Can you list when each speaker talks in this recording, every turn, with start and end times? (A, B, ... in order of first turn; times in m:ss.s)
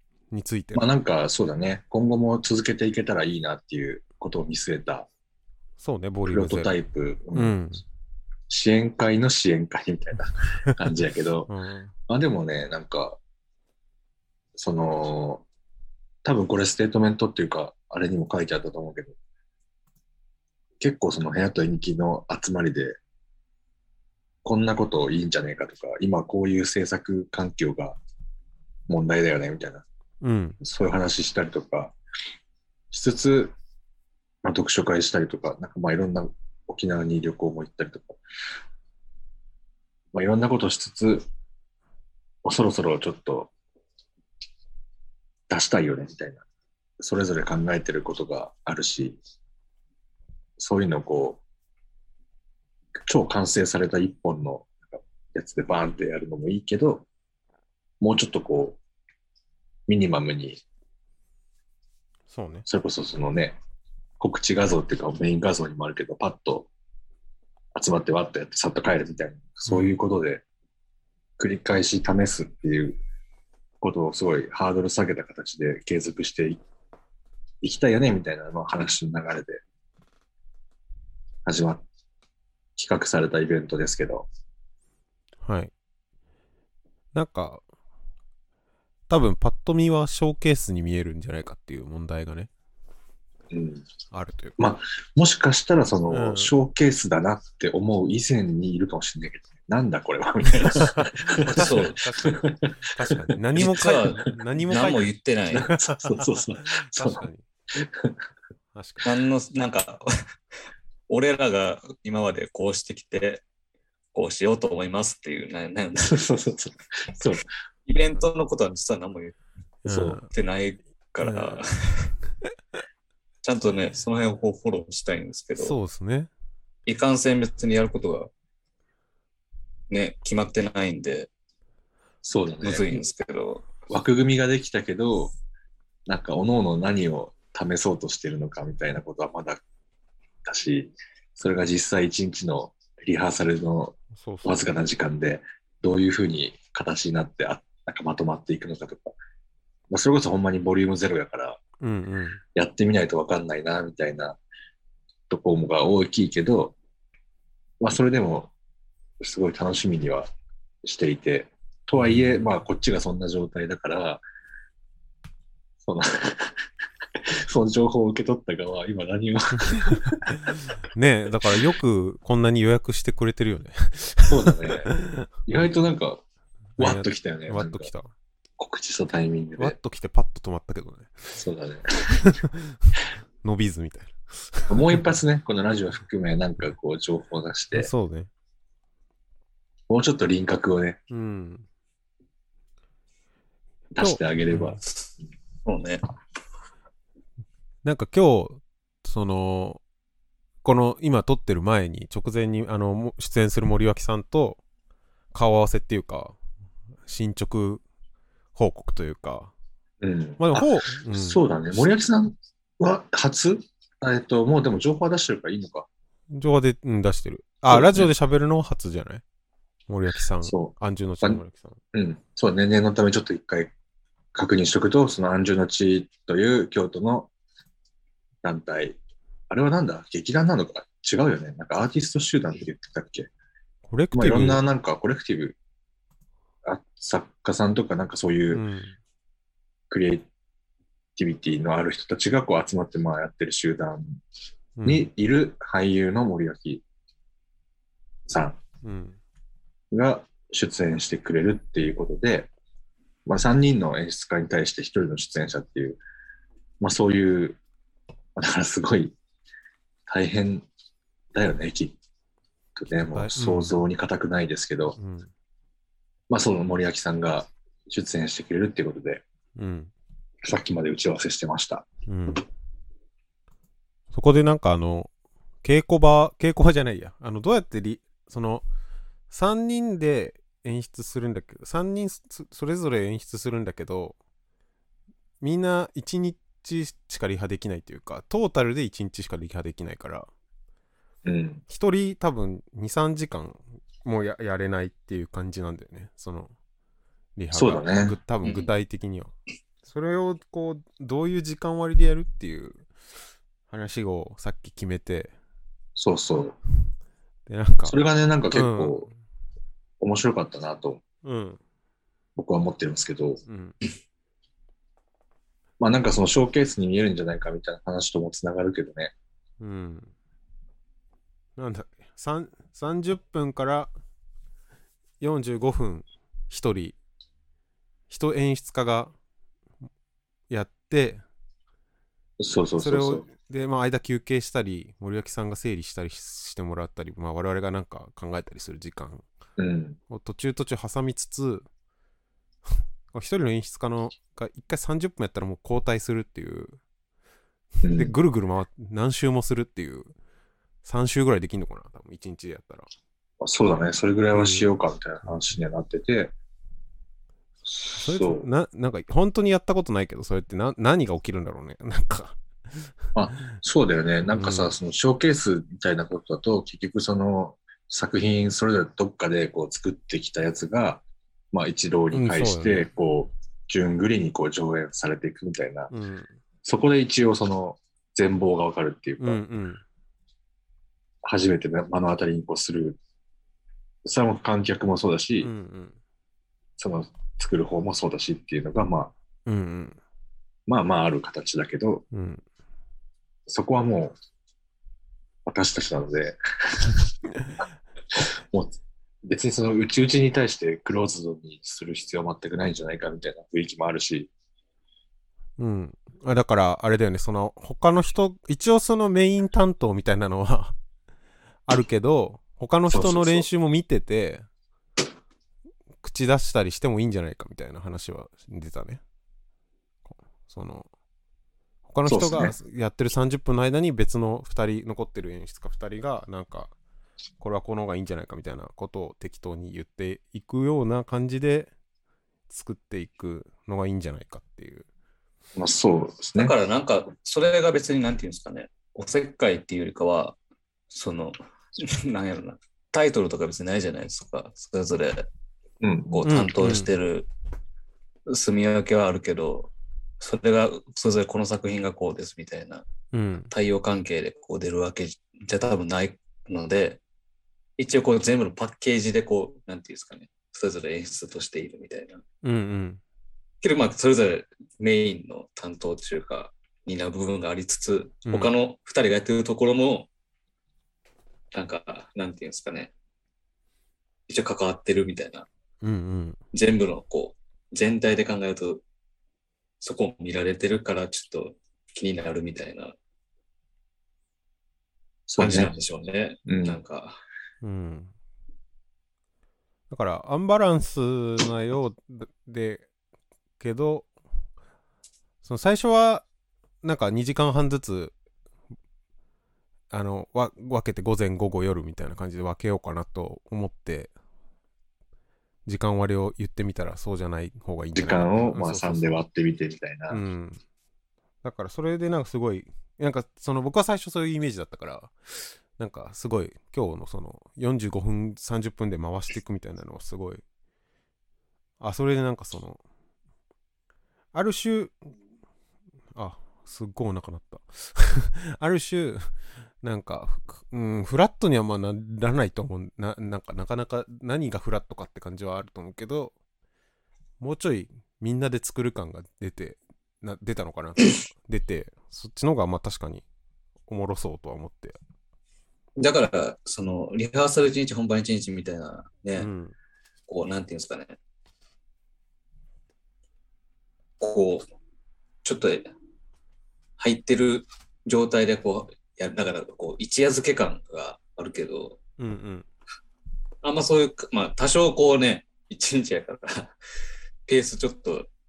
0:00.3-0:00.8 A
0:00.7-0:05.1 B
0:05.8-0:06.7 A
0:06.2-0:07.6 B
0:07.3-0:07.8 A
0:08.5-0:11.5 B
0:11.5-0:11.9 A
0:12.1-0:13.2 B
0:14.6-0:15.4 B
0:16.2-0:19.2 B
0:20.8-0:23.0 B
0:24.4-0:28.0 B
0:28.9-0:29.8 B
0:30.2-0:30.6 A
0:30.6-0:31.9 B
0:32.9-0:33.5 B
0:34.4-0:38.2 B
0:40.1-0:41.2 B
0:42.4-0:43.5 B
0:45.5-0:46.4 B
0:47.0-0:49.2 B
0:50.6-0:51.4 B
0:53.0-0:57.0 B
0:58.0-0:58.8 B
0:59.9-1:00.6 B
1:02.3-1:02.6 A
1:02.6-1:03.6 B
1:04.2-1:06.7 B
1:07.7-1:10.4 B
1:09.6-1:10.0 A
1:11.4-1:13.0 B
1:13.8-1:16.6 B
1:17.6-1:19.6 B
1:21.4-1:21.8 B
1:22.8-1:24.3 B
1:25.4-1:25.7 A
1:27.1-1:27.6 A
1:29.1-1:32.5 A
1:33.5-1:33.8 B
1:34.1-1:34.6 A
1:34.6-1:43.3 B
1:36.1-1:36.5 A
1:40.8-1:45.1 A
1:41.5-1:42.0 C
1:43.6-1:45.7 C
1:45.5-1:48.2 B
1:45.7-1:47.4 A
1:48.7-1:49.1 A
1:49.0-1:50.0 C
1:51.1-1:53.4 C
1:54.1-1:56.2 C
1:56.0-1:57.5 B
1:57.8-1:59.3 C
1:59.8-2:00.3 A
1:59.9-2:02.1 C
2:01.2-2:01.6 A
2:03.4-2:05.7 C
2:05.6-2:06.3 A
2:06.9-2:08.3 C
2:09.9-2:11.3 C
2:12.2-2:13.0 B
2:12.6-2:13.8 C
2:13.9-2:15.3 B
2:16.1-2:19.6 B
2:20.4-2:29.2 B
2:24.2-2:24.6 A
2:29.9-2:31.6 B
2:31.8-2:32.4 A
2:32.5-2:34.4 B
2:35.3-2:36.7 B
2:37.8-2:38.5 B
2:39.2-2:40.3 B
2:40.8-2:44.2 B
2:42.0-2:42.5 A
2:45.8-2:46.6 B
2:47.2-2:50.4 B
2:50.8-2:55.3 A
2:54.3-2:54.9 B
2:55.4-2:56.2 B
2:56.8-2:58.1 A
2:56.8-2:57.9 B
2:58.6-2:59.8 B
2:59.6-3:01.3 A
3:01.4-3:02.1 B
3:02.2-3:04.9 A
3:04.7-3:07.9 B
3:07.7-3:08.3 A
3:09.9-3:11.0 B
3:11.1-3:11.6 A
3:13.9-3:14.8 B
3:14.0-3:14.7 A
3:14.8-3:15.1 C
3:15.6-3:16.0 C
3:17.8-3:19.8 A
3:20.6-3:24.6 A
3:25.3-3:26.4 A
3:27.0-3:27.8 A
3:28.5-3:29.5 A
3:30.0-3:35.9 B
3:30.4-3:31.9 A
3:36.3-3:39.2 A
3:37.7-3:38.1 B
3:39.9-3:41.8 A
3:40.4-3:41.4 B
3:41.9-3:43.7 B
3:44.3-3:47.3 B
3:48.4-3:49.0 B
3:49.5-3:53.3 B
3:53.9-3:54.6 A
3:54.1-3:55.6 B
3:56.6-3:58.6 B
3:58.5-3:59.0 A
3:59.9-4:00.3 B
4:01.2-4:04.2 B
4:04.8-4:05.1 A
4:04.8-4:06.8 B
4:08.3-4:08.6 B
4:08.8-4:09.2 A
4:09.9-4:12.5 B
4:13.2-4:16.0 B
4:16.8-4:17.6 B
4:18.4-4:19.2 B
4:20.1-4:20.6 B
4:21.3-4:22.0 B
4:22.8-4:25.0 B
4:23.0-4:23.8 A
4:25.0-4:25.3 A
4:26.3-4:29.2 B
4:29.6-4:29.9 A
4:30.4-4:31.8 B
4:32.1-4:32.4 A
4:34.1-4:35.1 A
4:35.6-4:38.6 A
4:39.3-4:44.2 A
4:45.4-4:50.3 A
4:51.2-4:51.6 B
4:51.7-4:56.5 A
4:57.4-4:59.3 A
4:57.5-4:58.2 B
4:58.4-4:58.7 C
4:59.8-5:02.8 A
5:03.7-5:05.3 A
5:06.0-5:06.6 B
5:07.5-5:09.1 A
5:07.8-5:09.1 B
5:10.0-5:11.0 B
5:11.2-5:11.6 A
5:12.4-5:13.4 B
5:13.4-5:13.8 A
5:15.8-5:19.1 B
5:19.6-5:20.1 A
5:21.6-5:23.9 A
5:25.2-5:27.0 A
5:28.1-5:29.1 A
5:30.5-5:31.2 A
5:32.4-5:33.2 B
5:32.8-5:39.2 A
5:39.6-5:40.0 B
5:40.1-5:41.6 A
5:43.1-5:46.8 A
5:47.8-5:48.2 B
5:48.0-5:50.1 A
5:50.8-5:52.9 A
5:53.4-5:56.3 B
5:54.3-5:54.7 A
5:57.6-5:58.5 B
5:57.9-6:02.4 A
6:03.1-6:15.9 B
6:04.3-6:04.7 A
6:12.1-6:12.9 A
6:15.9-6:16.3 A
6:16.6-6:19.4 B
6:19.2-6:19.8 A
6:21.2-6:23.0 B
6:24.0-6:25.5 B
6:25.4-6:26.0 A
6:26.8-6:29.1 B
6:29.4-6:30.0 A
6:30.7-6:32.0 B
6:32.1-6:32.4 A
6:33.5-6:34.2 B
6:35.4-6:37.0 B
6:38.1-6:44.3 B
6:45.6-6:50.8 A
6:51.7-6:54.4 A
6:52.9-6:53.5 B
6:56.0-6:59.0 A
7:00.1-7:00.9 A
7:01.9-7:06.7 A
7:02.0-7:02.6 B
7:07.4-7:11.7 A
7:12.5-7:14.8 A
7:15.5-7:16.5 B
7:16.4-7:20.4 C
7:20.9-7:25.2 C
7:25.8-7:26.2 B
7:26.1-7:27.3 C
7:26.2-7:26.9 A
7:28.3-7:32.9 C
7:33.1-7:33.5 A
7:33.5-7:37.0 C
7:37.8-7:42.2 C
7:42.4-7:43.0 A
7:43.6-7:50.1 C
7:48.3-7:48.5 A
7:51.5-7:52.9 C
7:54.3-7:55.5 C
7:55.8-7:56.4 A
7:56.5-7:58.8 C
7:59.8-8:02.9 C
8:05.3-8:05.7 B
8:05.4-8:07.2 C
8:06.5-8:06.8 B
8:07.6-8:08.1 A
8:09.9-8:12.9 A
8:13.6-8:14.1 A
8:15.4-8:16.2 A
8:16.8-8:18.1 A
8:19.9-8:24.1 A
8:25.6-8:29.1 A
8:27.9-8:30.2 B
8:30.1-8:30.6 A
8:31.4-8:35.1 A
8:35.8-8:40.4 A
8:41.8-8:42.8 A
8:44.3-8:45.1 A
8:46.1-8:56.3 A
8:57.4-9:03.2 A
9:03.9-9:05.0 A
9:06.0-9:09.5 C
9:09.4-9:09.7 A
9:10.3-9:11.2 C
9:14.2-9:14.6 C
9:15.4-9:15.9 C
9:17.0-9:22.0 C
9:22.2-9:22.6 A
9:23.6-9:26.7 C
9:27.5-9:28.3 C